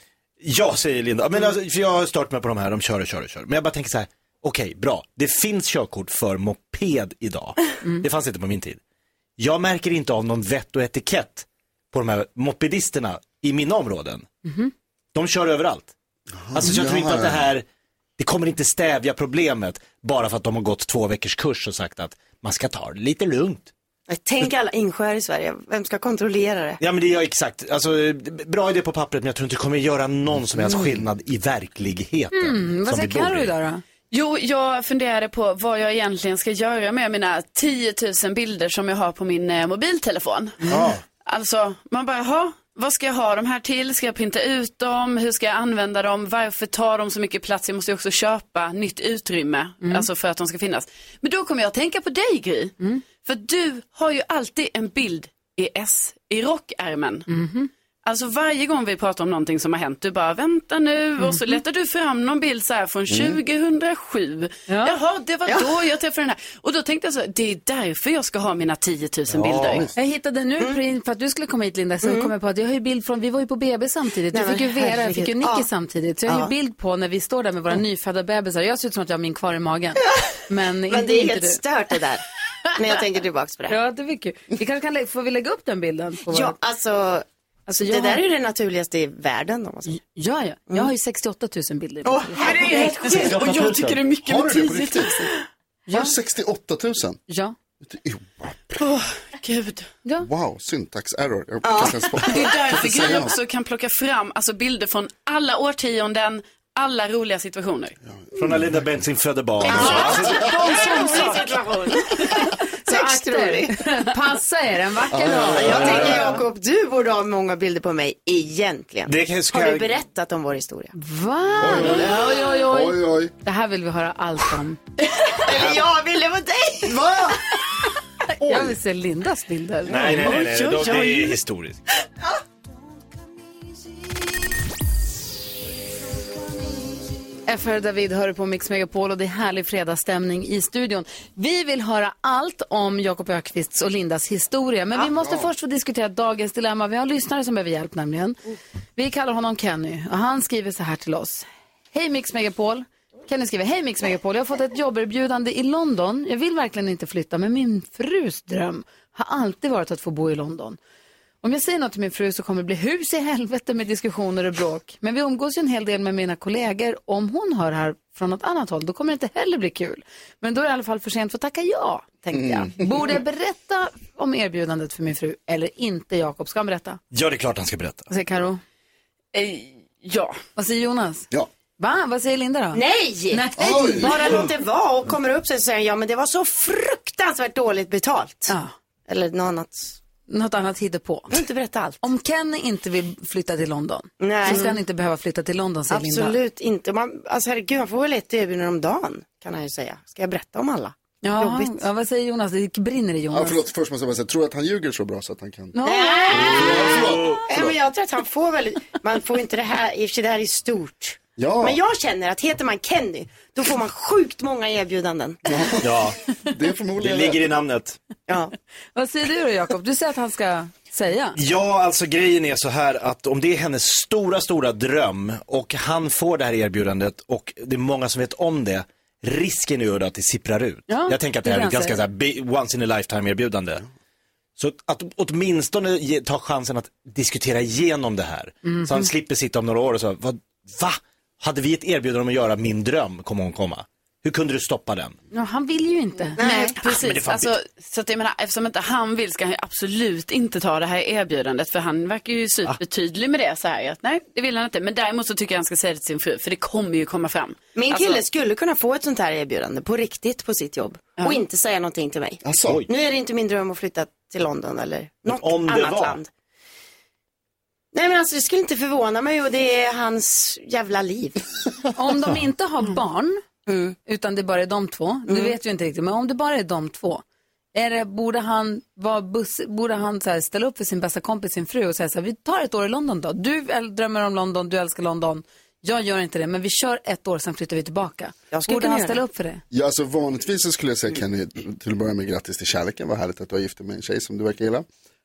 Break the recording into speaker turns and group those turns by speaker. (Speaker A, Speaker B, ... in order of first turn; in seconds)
Speaker A: 0.4-8.8, 9.4-14.2, 15.1-15.9, 16.5-17.6, 18.2-23.7, 26.8-33.5, 40.7-41.0, 69.4-69.8, 93.1-94.0, 108.4-111.3, 115.5-116.4, 119.1-119.9, 125.5-125.8, 129.9-131.8, 177.1-178.1, 206.3-207.6, 215.8-216.2, 217.0-218.0, 221.4-233.8, 234.6-245.2, 246.8-247.5, 265.3-266.2
Speaker B: 14.4-14.7, 32.3-33.8, 57.3-57.7, 61.2-61.6, 64.7-65.0, 70.0-81.6, 83.7-86.6, 87.7-88.2, 89.9-93.3, 95.9-96.1, 97.3-97.5, 109.8-111.4, 112.2-116.4, 121.0-124.8, 128.4-130.4, 137.5-148.4, 149.0-160.8, 161.4-177.0, 178.1-178.6, 180.6-184.4, 188.5-188.7, 190.3-191.4, 192.0-196.4, 201.2-203.6, 205.7-206.8, 218.9-221.4, 230.9-232.0, 238.7-239.1, 245.3-246.4, 272.0-273.4, 274.1-277.2, 277.7-289.6
Speaker C: 16.4-17.5, 63.1-63.4, 69.4-69.9, 94.2-95.3, 95.9-97.2, 97.8-98.8, 100.2-103.4, 108.1-108.7, 115.1-116.4, 121.6-123.3, 126.9-127.4, 172.3-172.7, 183.6-184.4, 203.3-205.8, 206.3-207.7, 211.4-211.8, 215.5-217.4, 262.4-262.8, 289.7-294.9
Speaker D: 24.1-26.8, 72.0-72.3, 74.3-75.7, 76.3-76.5, 80.9-83.8, 86.3-90.0, 92.0-93.5, 101.6-102.1, 109.7-113.9, 115.3-120.9, 121.8-122.2, 125.4-127.4, 182.7-188.5, 189.1-190.0, 191.3-192.0, 194.2-194.8, 195.9-201.8, 205.8-215.7, 218.3-218.5, 246.4-246.8, 257.8-266.3, 267.9-271.5, 273.7-274.0, 275.3-275.6, 288.5-289.2
Speaker E: 34.1-40.6, 41.2-57.3, 58.0-69.8, 92.4-95.3, 98.8-99.9, 102.3-108.0, 110.8-111.2, 130.1-131.4, 179.3-180.4, 246.4-258.2